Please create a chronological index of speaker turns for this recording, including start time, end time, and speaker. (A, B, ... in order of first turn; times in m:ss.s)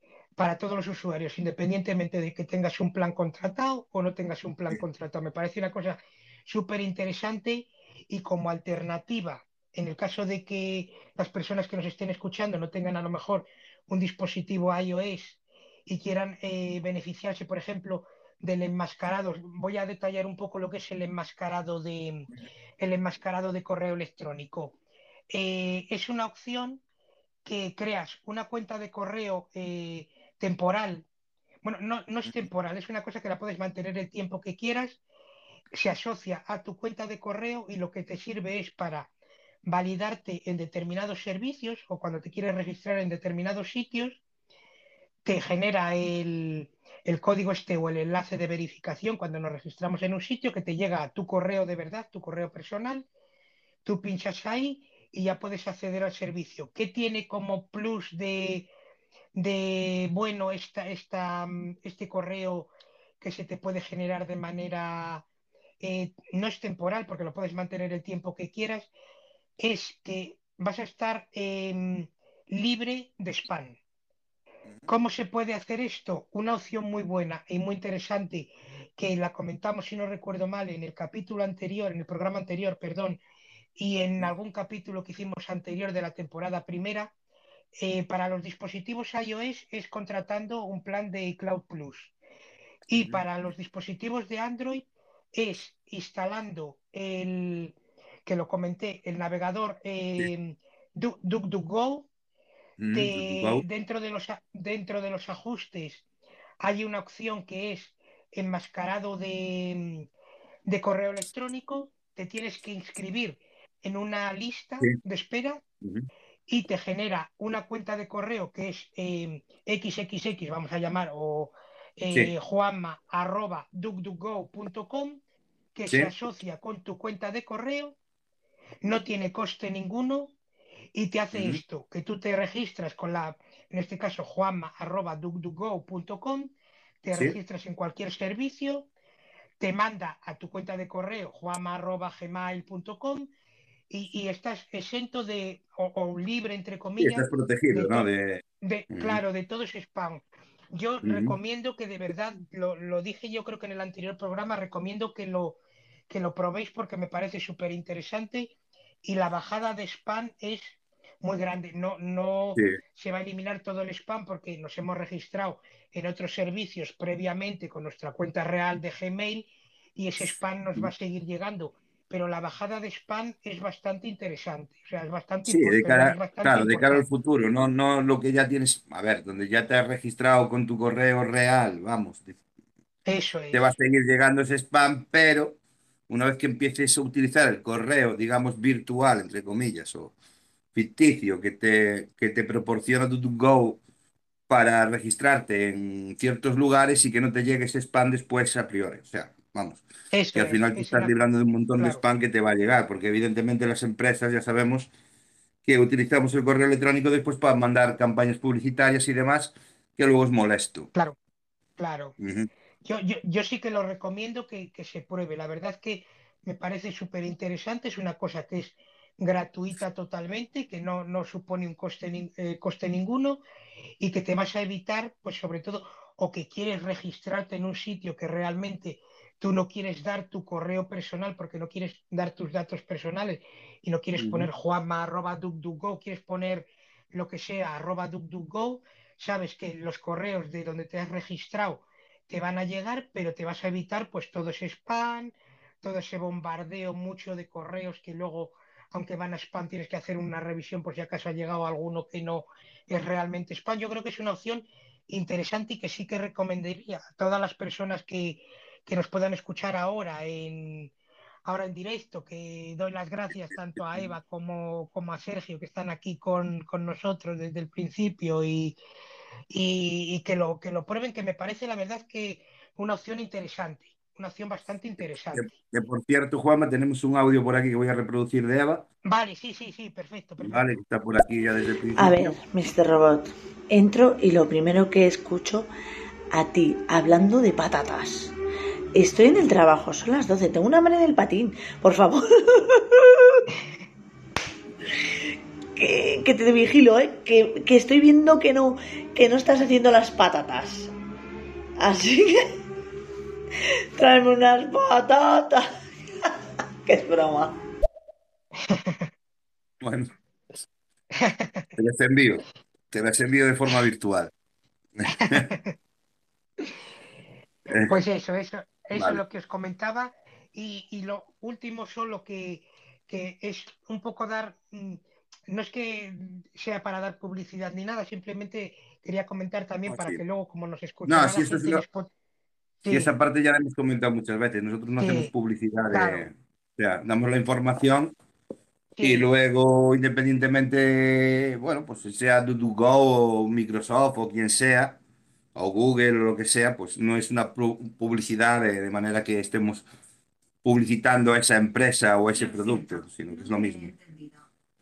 0:00.4-0:22.3 A
0:22.8-0:24.8 A
0:25.3-0:26.8 A
0:27.4-0:31.0 A
0:31.6-0:35.0 A
0:35.7-0:39.1 A
0:39.7-0:44.2 A
0:45.2-0:53.1 A
0:53.8-0:58.7 A
0:59.4-1:02.7 A
1:03.2-1:05.2 A
1:05.8-1:08.9 A
1:09.6-1:13.8 A
1:14.9-1:23.2 A
1:23.8-1:27.1 A
1:27.8-1:32.1 A
1:32.9-1:33.2 B
1:32.9-1:42.1 A
1:42.8-1:43.6 B
1:42.9-1:46.0 A
1:46.6-1:50.1 A
1:50.6-1:55.6 A
1:55.8-1:56.1 B
1:56.5-2:05.2 A
2:05.7-2:08.0 A
2:08.8-2:10.3 A
2:10.9-2:18.9 A
2:11.3-2:11.6 B
2:19.6-2:23.3 A
2:23.9-2:28.1 A
2:27.0-2:29.2 B
2:28.6-2:57.0 A
2:31.0-2:31.3 B
2:55.5-3:02.3 B
3:03.0-3:03.6 A
3:03.5-3:05.6 B
3:06.1-3:10.1 B
3:10.7-3:13.8 B
3:14.5-3:19.8 B
3:20.1-3:21.1 A
3:20.3-3:24.9 B
3:25.6-3:30.9 B
3:31.8-3:32.1 A
3:32.2-3:32.5 B
3:32.8-3:43.4 A
3:44.0-4:20.9 A
3:54.2-3:54.5 B
4:21.4-4:28.8 A
4:29.5-4:35.5 A
4:35.3-4:38.8 B
4:39.0-4:40.7 A
4:40.4-4:42.4 B
4:42.0-4:45.7 C
4:46.3-4:48.3 C
4:48.9-4:53.1 C
4:55.8-5:00.9 C
5:01.8-5:02.5 C
5:04.0-5:05.7 C
5:06.8-5:07.6 C
5:08.6-5:09.1 A
5:09.8-5:10.1 B
5:11.1-5:11.7 A
5:11.8-5:14.3 B
5:15.0-5:15.5 B
5:15.1-5:15.7 A
5:17.7-5:18.0 B
5:17.9-5:32.1 A
5:18.9-5:19.2 B
5:29.9-5:30.2 B
5:31.0-5:31.8 B
5:32.8-5:33.1 A
5:32.9-5:38.1 B
5:35.0-5:35.3 A
5:35.9-5:36.3 A
5:39.0-5:39.3 A
5:39.0-5:45.0 B
5:45.5-5:49.8 B
5:50.6-5:54.0 B